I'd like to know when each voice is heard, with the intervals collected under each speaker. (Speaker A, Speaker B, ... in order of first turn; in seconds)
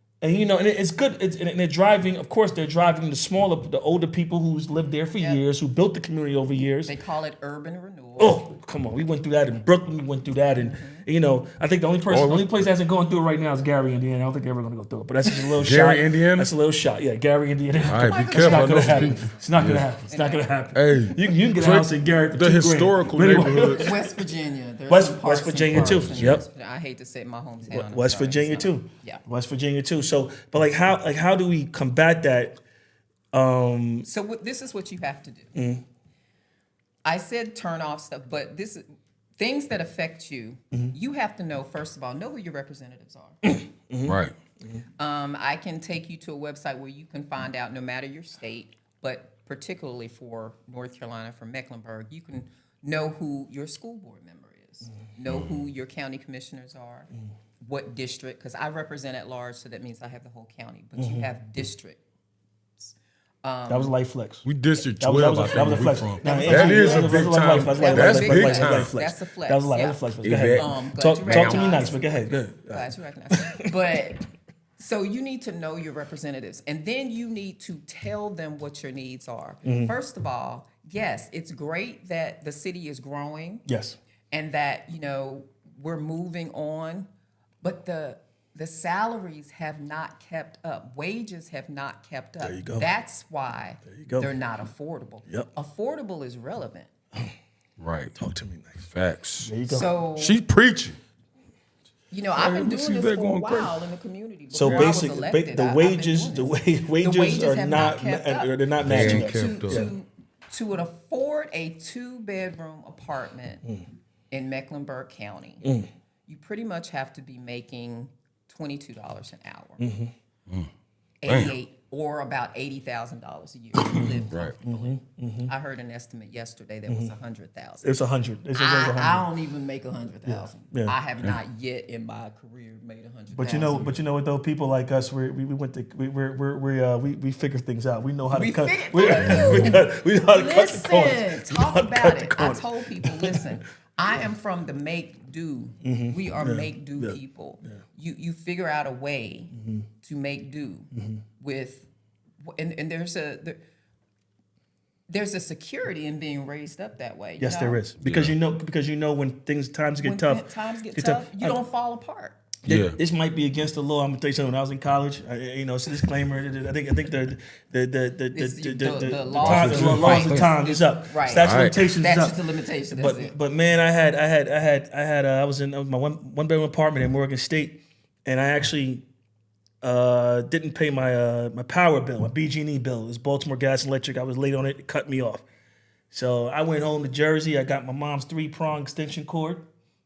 Speaker A: 0.2-7.0, 8.2-24.1, 24.9-26.4, 27.7-32.6, 33.3-34.0, 35.5-35.8, 43.4-44.1, 61.0-61.3, 63.7-64.5, 65.0-73.7, 79.6-79.9, 83.7-84.0, 92.4-92.8, 93.8-94.3, 98.1-98.9, 99.4-99.9, 104.5-109.9, 115.6-115.9, 119.8-120.1, 123.9-125.5, 126.9-127.1, 127.8-129.3, 130.2-130.9, 133.3-143.5, 145.8-147.8, 149.5-149.8, 150.9-151.2, 157.4-161.6, 162.6-179.0, 179.8-185.4, 186.1-189.7
Speaker B: 6.8-8.4, 10.6-11.1, 17.8-19.5, 20.1-20.7, 23.4-29.2, 34.0-35.5, 37.0-38.8, 39.4-43.4, 45.0-57.1, 57.6-62.0, 62.8-63.9, 66.2-74.2, 74.8-83.6, 84.3-87.1, 87.6-96.9, 99.7-100.4, 102.1-113.6, 114.3-115.6, 116.3-119.8, 121.2-125.0, 125.5-127.9, 128.5-133.9, 138.3-150.9, 151.4-151.9, 152.4-153.6, 155.1-157.8, 160.0-162.4, 168.3-173.3
Speaker C: 12.1-12.7, 15.6-16.5, 17.9-19.9, 20.7-23.9, 25.7-26.4, 44.0-44.3, 55.3-55.7, 64.4-68.9, 70.2-70.7, 71.2-71.8, 97.8-98.1, 98.9-99.5, 100.2-101.0, 102.3-103.7, 104.6-104.9, 108.8-109.9, 121.3-121.5, 124.3-124.5, 139.1-139.7, 158.0-158.3, 162.7-163.0, 169.3-170.5, 171.3-171.8